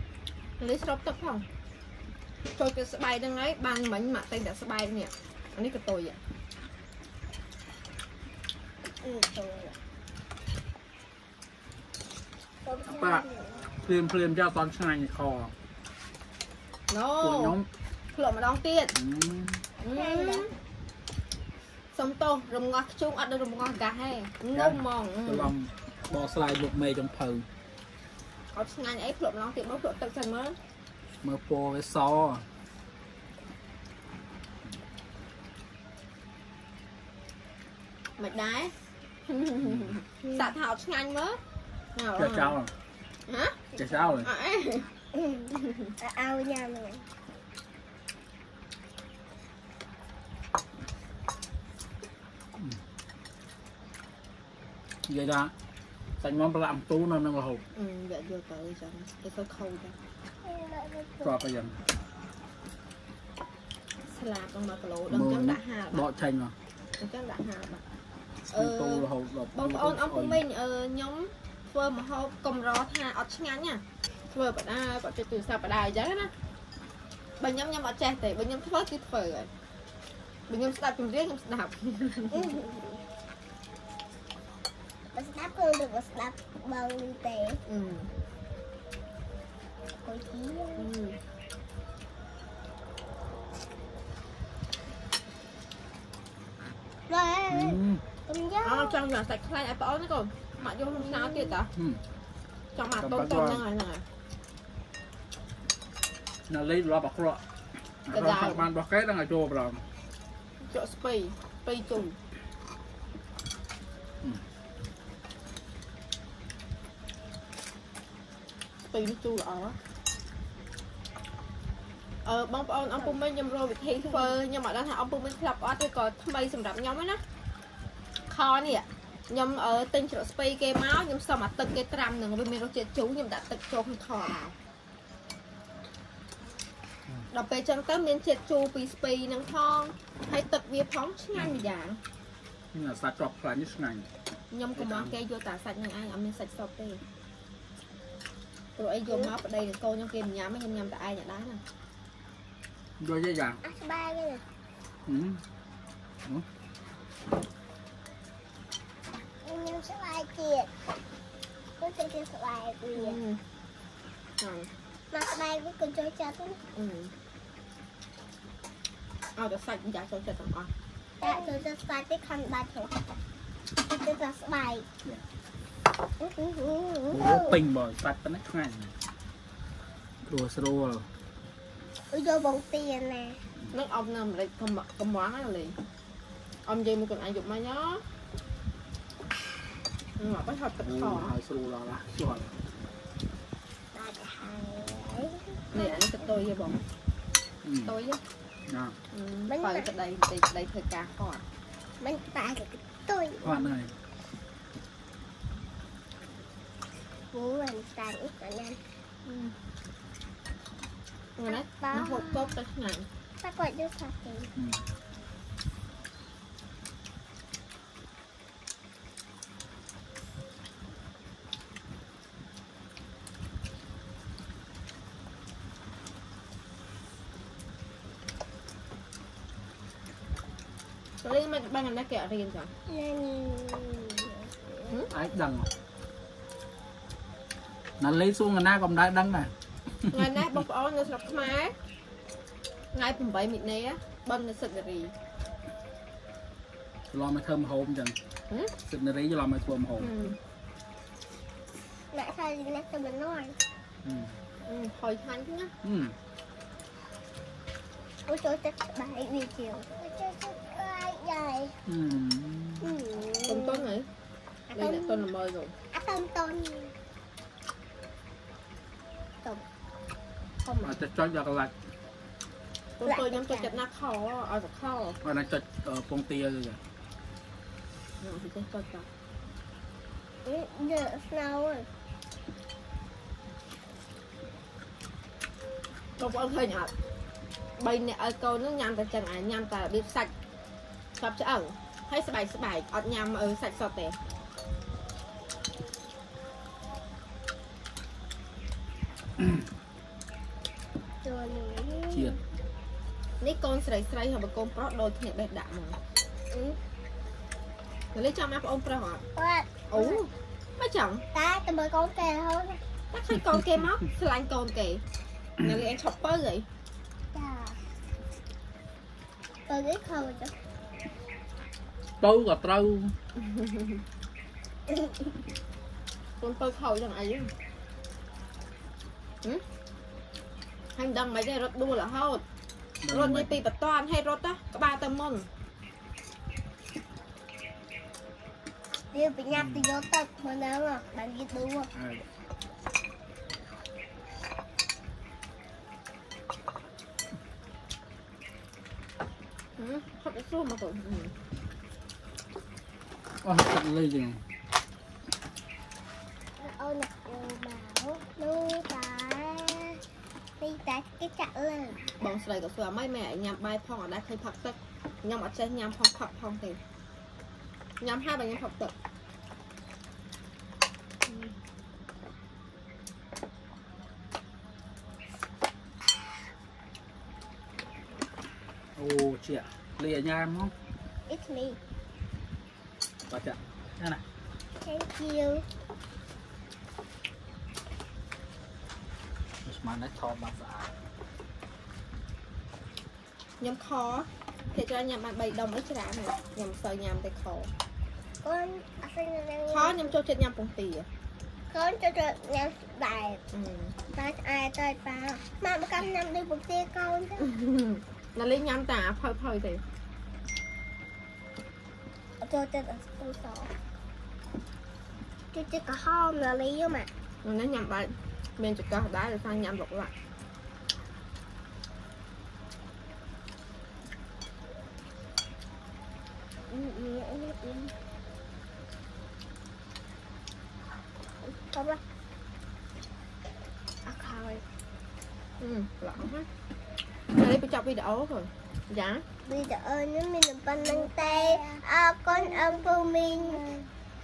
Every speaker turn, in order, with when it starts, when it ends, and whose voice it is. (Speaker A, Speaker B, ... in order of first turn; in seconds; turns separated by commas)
Speaker A: 0.6-1.4, Speaker A: 2.5-6.2, Speaker B: 9.0-9.8, Speaker B: 12.6-13.8, Speaker C: 12.9-13.2, Speaker C: 13.8-15.5, Speaker A: 16.9-17.6, Speaker C: 17.2-17.7, Speaker A: 18.1-18.9, Speaker C: 18.9-19.6, Speaker A: 19.8-20.6, Speaker B: 19.9-20.5, Speaker A: 21.9-25.5, Speaker C: 24.6-27.5, Speaker A: 28.5-30.6, Speaker C: 31.2-32.5, Speaker A: 38.2-38.8, Speaker A: 39.3-41.4, Speaker C: 39.6-40.0, Speaker A: 42.0-42.6, Speaker C: 42.2-42.7, Speaker A: 43.3-43.6, Speaker B: 43.7-44.2, Speaker C: 43.8-44.3, Speaker A: 44.2-44.9, Speaker B: 45.1-47.1, Speaker C: 55.1-55.5, Speaker C: 56.2-57.6, Speaker A: 57.8-60.0, Speaker B: 60.4-61.4, Speaker C: 61.2-61.8, Speaker A: 64.1-66.1, Speaker C: 65.1-66.5, Speaker A: 67.0-67.8, Speaker A: 68.5-76.3, Speaker C: 68.5-70.4, Speaker A: 77.4-79.5, Speaker A: 80.5-82.6, Speaker B: 82.3-83.0, Speaker B: 85.1-87.6, Speaker A: 87.7-88.1, Speaker B: 90.0-90.9, Speaker A: 90.8-91.2, Speaker B: 97.1-99.0, Speaker C: 97.5-98.0, Speaker A: 98.6-101.7, Speaker B: 101.2-101.5, Speaker C: 101.8-102.0, Speaker A: 102.8-104.0, Speaker C: 103.0-103.7, Speaker C: 106.5-107.4, Speaker C: 108.1-109.8, Speaker A: 108.1-108.7, Speaker A: 110.6-112.2, Speaker A: 118.9-119.8, Speaker A: 122.3-127.2, Speaker A: 128.3-134.6, Speaker A: 137.3-142.0, Speaker C: 141.3-141.7, Speaker C: 142.7-144.1, Speaker A: 144.5-147.0, Speaker C: 144.8-145.2, Speaker A: 148.8-151.6, Speaker C: 153.0-153.6, Speaker B: 153.6-154.4, Speaker C: 155.1-155.4, Speaker B: 159.4-160.8, Speaker B: 161.8-163.2, Speaker A: 162.9-163.4, Speaker A: 164.4-164.7, Speaker B: 165.1-166.6, Speaker A: 166.7-167.1, Speaker A: 169.4-170.7, Speaker B: 171.2-173.1, Speaker A: 171.2-171.5, Speaker B: 173.8-174.9, Speaker B: 176.2-177.6, Speaker C: 177.1-178.9, Speaker C: 180.2-181.1, Speaker B: 182.1-183.4, Speaker A: 183.7-185.7, Speaker A: 186.7-188.0, Speaker A: 190.2-191.3, Speaker C: 190.8-192.6, Speaker B: 193.9-196.1, Speaker A: 195.7-196.8, Speaker C: 197.6-197.9, Speaker A: 197.8-198.2, Speaker C: 198.7-199.0, Speaker A: 199.1-201.4, Speaker B: 199.5-199.9, Speaker B: 202.0-203.6, Speaker C: 203.4-203.9, Speaker B: 207.3-208.8, Speaker A: 209.2-209.5, Speaker A: 211.4-213.1, Speaker B: 211.5-212.6, Speaker B: 213.4-214.5, Speaker C: 214.6-214.8, Speaker A: 231.2-232.7, Speaker B: 232.9-234.9, Speaker C: 235.1-235.7, Speaker C: 238.0-239.5, Speaker C: 240.1-240.6, Speaker A: 240.1-241.8, Speaker A: 242.9-245.1, Speaker C: 247.1-248.2, Speaker C: 248.8-250.1, Speaker A: 250.0-250.4, Speaker B: 252.1-253.6, Speaker C: 254.0-254.4, Speaker A: 254.7-255.7, Speaker C: 255.8-256.1, Speaker B: 258.3-261.8, Speaker C: 261.9-263.0, Speaker B: 262.8-263.9, Speaker A: 263.4-264.1, Speaker B: 264.7-265.3, Speaker A: 264.8-265.7, Speaker B: 265.9-266.9, Speaker A: 270.7-270.9, Speaker C: 270.8-271.7, Speaker A: 273.0-275.2, Speaker B: 273.0-273.8, Speaker C: 275.2-276.8, Speaker A: 278.2-279.1, Speaker B: 280.4-281.9, Speaker A: 286.2-286.9, Speaker A: 287.8-290.3, Speaker A: 291.2-294.2, Speaker C: 299.4-299.6, Speaker B: 301.2-302.4, Speaker C: 302.1-302.4, Speaker A: 303.4-306.0, Speaker B: 306.5-306.8, Speaker A: 308.1-309.2, Speaker B: 309.4-310.3, Speaker A: 309.9-311.2, Speaker B: 311.3-312.8, Speaker A: 313.1-315.0, Speaker A: 315.6-316.7, Speaker B: 317.3-317.8, Speaker B: 319.7-320.5, Speaker C: 322.2-323.1, Speaker A: 323.4-324.0, Speaker A: 326.4-327.5, Speaker A: 331.0-332.4, Speaker C: 333.0-333.6, Speaker A: 333.1-335.5, Speaker B: 339.1-341.9, Speaker C: 339.5-339.9, Speaker C: 341.9-342.3, Speaker A: 349.8-351.3, Speaker C: 353.4-354.4, Speaker B: 356.6-360.0, Speaker B: 360.6-362.1, Speaker A: 362.2-366.8, Speaker A: 368.0-368.9, Speaker A: 371.3-371.5, Speaker C: 379.0-380.7, Speaker B: 381.3-381.8, Speaker C: 383.3-384.2, Speaker B: 384.8-385.6, Speaker C: 389.6-390.9, Speaker A: 393.6-397.7, Speaker B: 398.4-400.1, Speaker A: 399.7-401.1, Speaker B: 401.7-403.4, Speaker A: 403.5-403.9, Speaker B: 404.1-407.5, Speaker A: 407.4-409.8, Speaker B: 412.4-413.7, Speaker B: 415.5-417.1, Speaker A: 417.4-420.1, Speaker B: 426.7-427.9, Speaker B: 431.4-432.0, Speaker B: 434.1-434.6, Speaker A: 435.6-436.5, Speaker A: 437.3-439.2, Speaker B: 439.5-443.9, Speaker A: 440.8-441.7